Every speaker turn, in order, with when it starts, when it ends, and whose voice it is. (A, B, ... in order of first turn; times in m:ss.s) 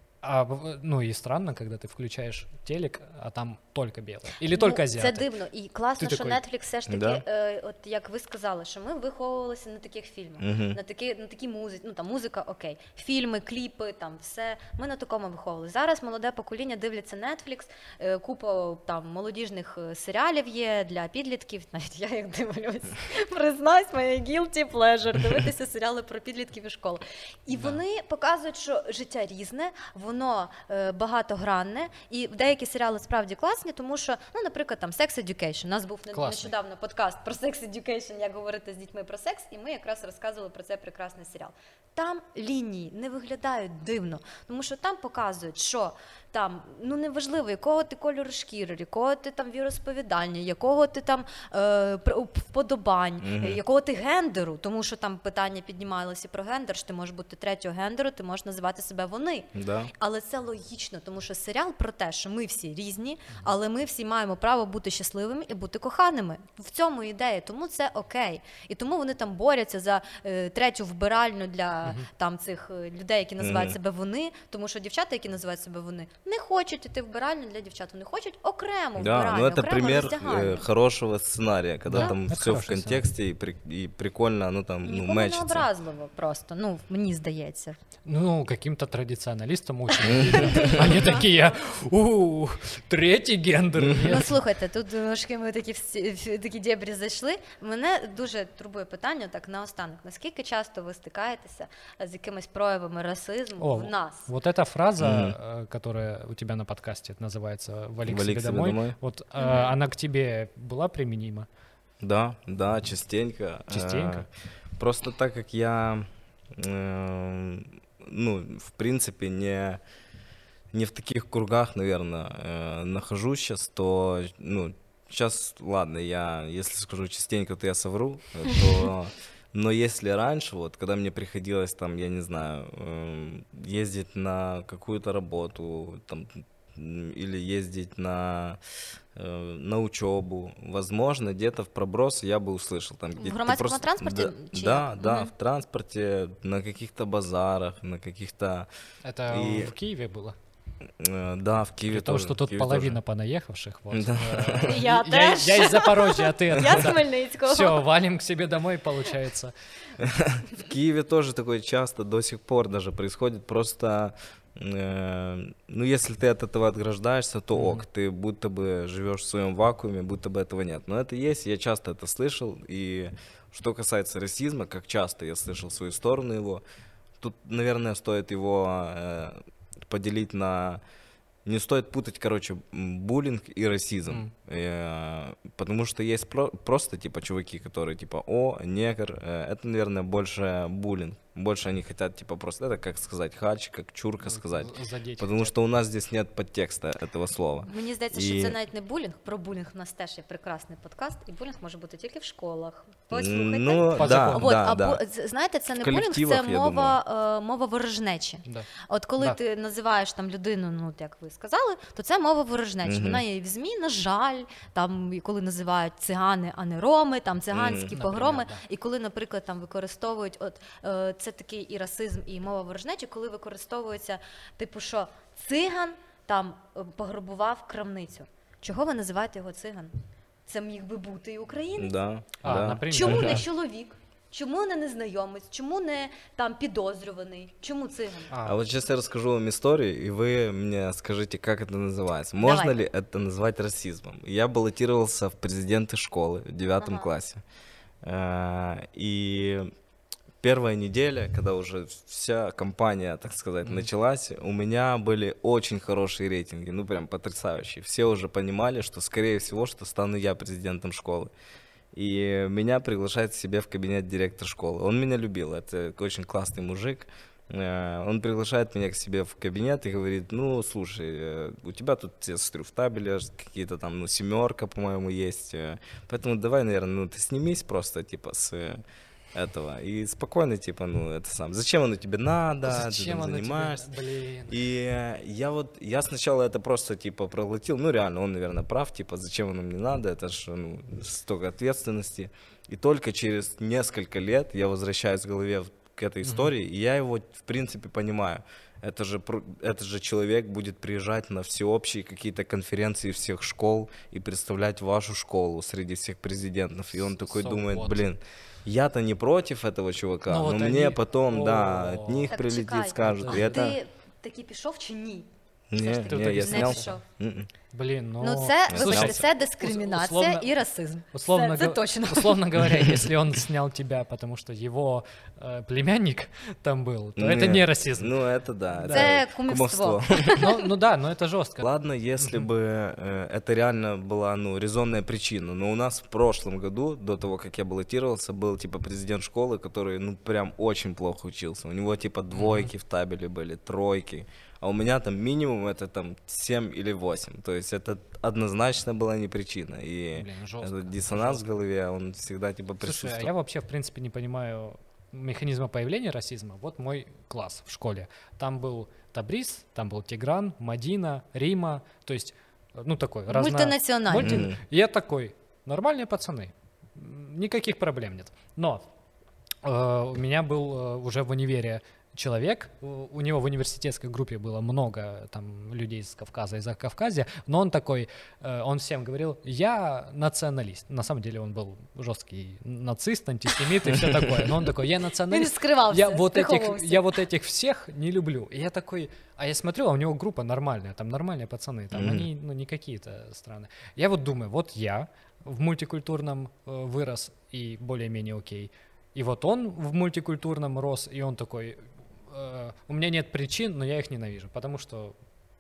0:00.2-0:05.2 A
0:04.5-1:20.6 B
0:06.0-0:06.4 A
0:06.9-0:07.2 C
0:10.4-0:10.8 C
0:27.5-0:27.8 A
0:36.1-0:36.5 A
0:53.2-0:53.6 C
0:59.6-0:59.9 C
1:13.4-1:13.8 C
1:19.0-1:25.7 C
1:21.9-1:23.1 A
1:24.8-1:27.8 B
1:28.0-1:34.4 A
1:30.0-1:30.8 C
1:30.4-1:31.1 B
1:34.0-1:44.3 B
1:43.6-1:51.5 A
1:45.0-1:45.4 C
1:48.0-1:49.0 C
1:49.4-1:49.8 B
1:52.0-1:59.8 C
1:53.7-1:54.2 A
2:00.7-2:18.6 C
2:19.2-2:28.7 C
2:23.2-2:25.3 B
2:29.0-2:30.4 A
2:29.3-2:29.7 C
2:31.0-2:33.0 C
2:31.9-2:39.5 A
2:33.9-2:34.8 C
2:34.6-2:37.9 B
2:40.0-2:56.6 C
2:47.5-2:47.8 A
2:57.2-3:00.8 C
3:01.4-3:18.6 C
3:14.2-3:15.5 A
3:17.6-3:49.9 B
3:23.1-3:25.0 C
3:23.9-3:24.5 A
3:25.7-3:27.0 C
3:28.5-3:29.4 A
3:32.8-3:33.2 C
3:37.5-3:37.9 C
3:37.9-3:38.6 A
3:50.5-3:52.0 B
3:51.8-3:53.4 C
3:52.4-3:53.4 A
3:52.9-3:58.3 B
3:58.3-3:58.6 A
3:58.4-4:07.4 C
4:02.4-4:02.8 B
4:06.8-4:07.1 B
4:08.0-4:09.7 C
4:10.4-4:21.3 C
4:13.6-4:13.9 A
4:21.9-4:38.8 C
4:39.3-4:43.9 C
4:42.6-4:44.6 A
4:44.5-5:13.8 C
4:56.2-4:56.5 A
5:06.9-5:08.1 A
5:10.3-5:12.4 A
5:12.3-5:17.0 B
5:13.0-5:13.8 A
5:15.7-5:17.5 C
5:16.0-5:17.0 A
5:17.7-5:20.5 A
5:18.2-5:22.6 B
5:18.7-5:19.2 C
5:21.1-5:28.1 A
5:27.2-5:30.6 C
5:28.7-5:29.2 A
5:28.9-5:30.5 B
5:30.4-5:31.7 A
5:31.6-5:53.3 C
5:42.3-5:42.7 A
5:50.2-5:51.5 A
5:52.8-6:08.9 A
6:03.3-6:04.4 B
6:04.2-6:04.6 C
6:09.6-6:45.2 A
6:25.3-6:27.2 B
6:31.9-6:32.3 C